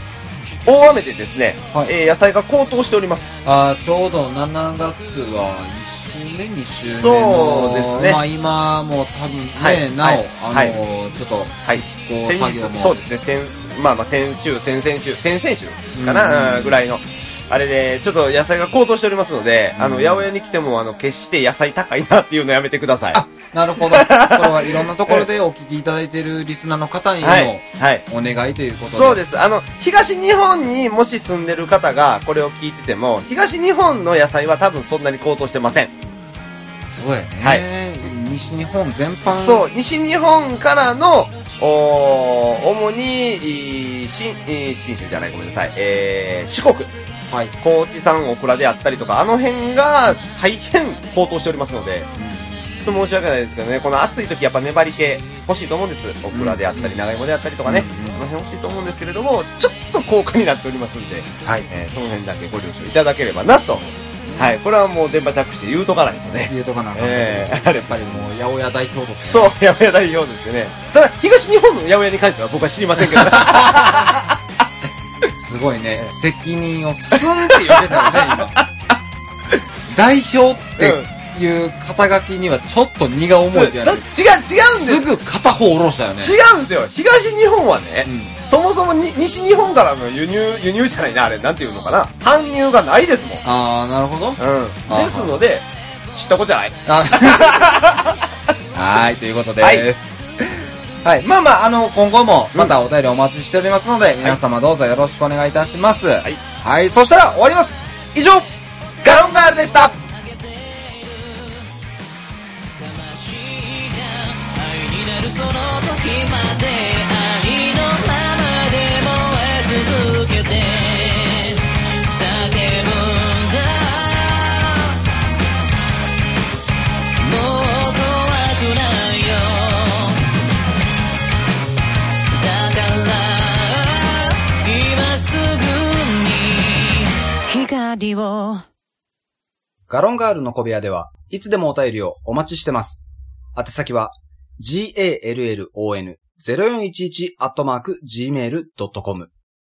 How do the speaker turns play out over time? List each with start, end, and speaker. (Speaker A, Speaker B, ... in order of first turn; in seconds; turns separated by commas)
Speaker A: 0.7-3.3, Speaker B: 3.4-12.9, Speaker A: 6.8-8.2, Speaker A: 9.6-10.8, Speaker A: 11.6-23.2, Speaker B: 15.9-16.8, Speaker B: 19.7-20.3, Speaker B: 23.1-29.2, Speaker A: 23.8-25.3, Speaker A: 27.2-28.0, Speaker A: 28.8-35.9, Speaker B: 36.9-39.6, Speaker A: 39.3-46.9, Speaker A: 47.6-52.1, Speaker B: 52.1-53.1, Speaker A: 52.8-68.3, Speaker B: 56.3-57.0, Speaker B: 57.6-58.2, Speaker B: 64.2-64.5, Speaker B: 66.5-69.5, Speaker A: 69.2-74.4, Speaker B: 73.0-74.2, Speaker B: 75.3-78.5, Speaker A: 77.1-79.0, Speaker B: 79.9-84.0, Speaker A: 80.8-81.1, Speaker A: 83.5-85.1, Speaker B: 84.7-86.3, Speaker A: 86.2-93.4, Speaker B: 88.0-88.3, Speaker B: 93.4-95.3, Speaker A: 94.4-98.2, Speaker B: 96.8-97.6, Speaker B: 98.7-108.5, Speaker A: 99.6-99.9, Speaker A: 109.0-109.9, Speaker C: 110.3-111.6, Speaker C: 112.8-125.0, Speaker C: 127.2-130.2, Speaker C: 132.3-138.6, Speaker D: 139.9-143.0, Speaker D: 143.5-149.3